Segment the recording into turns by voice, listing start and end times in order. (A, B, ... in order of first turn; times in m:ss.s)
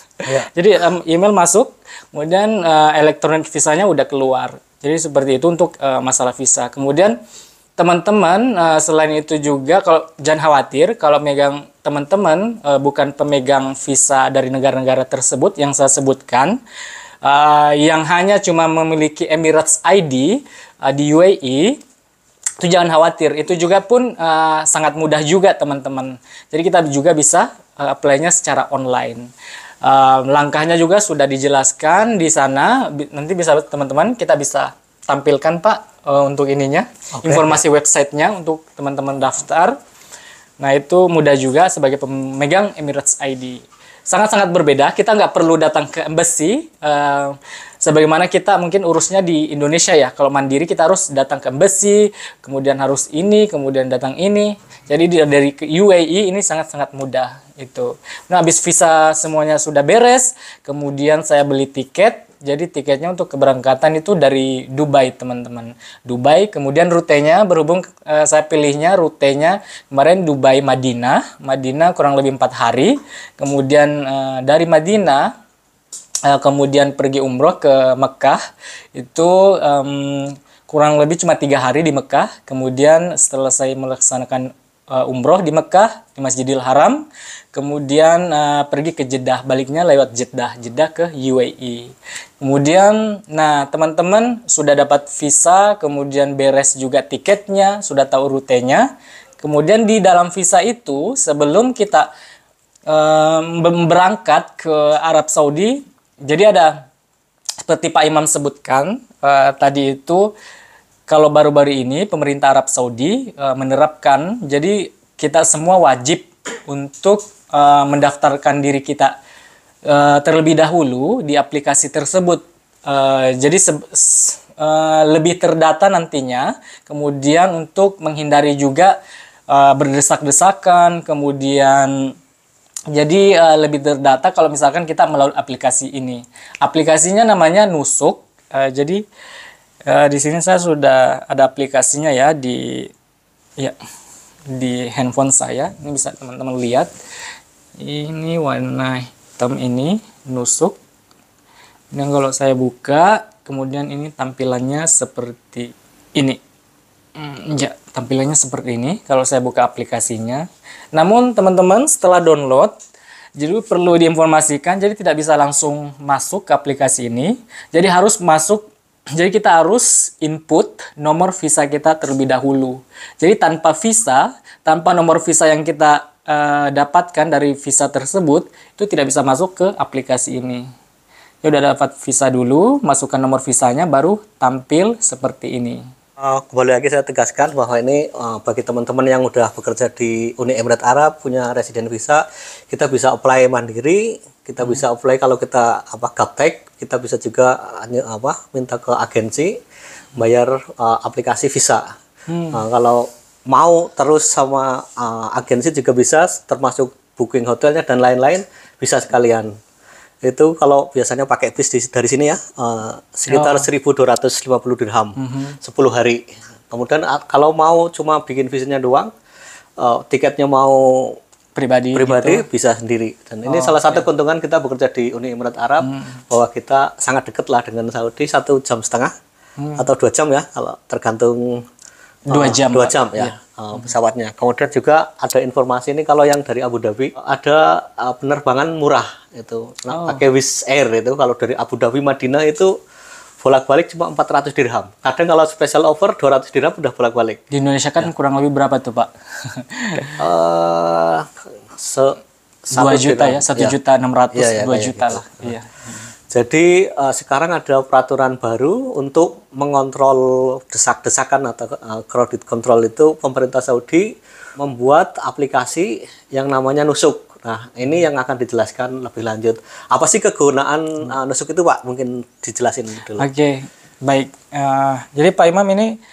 0:00.2-0:07.2 A
0:07.8-0:16.6 A
0:17.2-0:21.8 A
0:22.6-0:29.3 A
0:29.8-0:39.8 A
0:37.2-0:37.6 B
0:40.6-1:15.3 A
1:16.3-1:18.4 A
1:19.0-1:38.9 A
1:39.4-1:42.1 A
1:42.9-1:46.8 A
1:47.6-1:50.3 A
1:51.1-1:59.2 A
1:59.9-2:09.0 A
2:09.5-2:12.2 A
2:12.9-2:19.0 A
2:19.9-2:22.9 A
2:24.5-2:26.9 A
2:27.8-2:30.8 A
2:31.9-2:36.4 A
2:37.2-2:42.8 A
2:43.4-3:00.7 A
3:01.4-3:05.8 A
3:06.2-3:19.6 B
3:20.2-3:21.9 B
3:22.3-3:22.6 A
3:22.5-3:29.5 B
3:30.2-3:39.1 B
3:33.3-3:33.7 A
3:35.2-3:35.6 A
3:39.8-3:41.2 B
3:41.6-3:42.4 A
3:42.0-3:49.1 B
3:43.5-3:44.1 A
3:45.8-3:46.2 A
3:49.6-3:49.9 A
3:49.8-3:51.7 B
3:52.3-3:53.4 A
3:52.3-4:02.7 B
3:59.9-4:00.2 A
4:03.4-4:07.4 B
4:07.5-4:10.2 A
4:10.0-4:12.2 B
4:12.7-4:13.8 B
4:12.7-4:16.0 A
4:14.3-4:15.5 B
4:16.3-4:33.3 B
4:33.2-4:36.0 A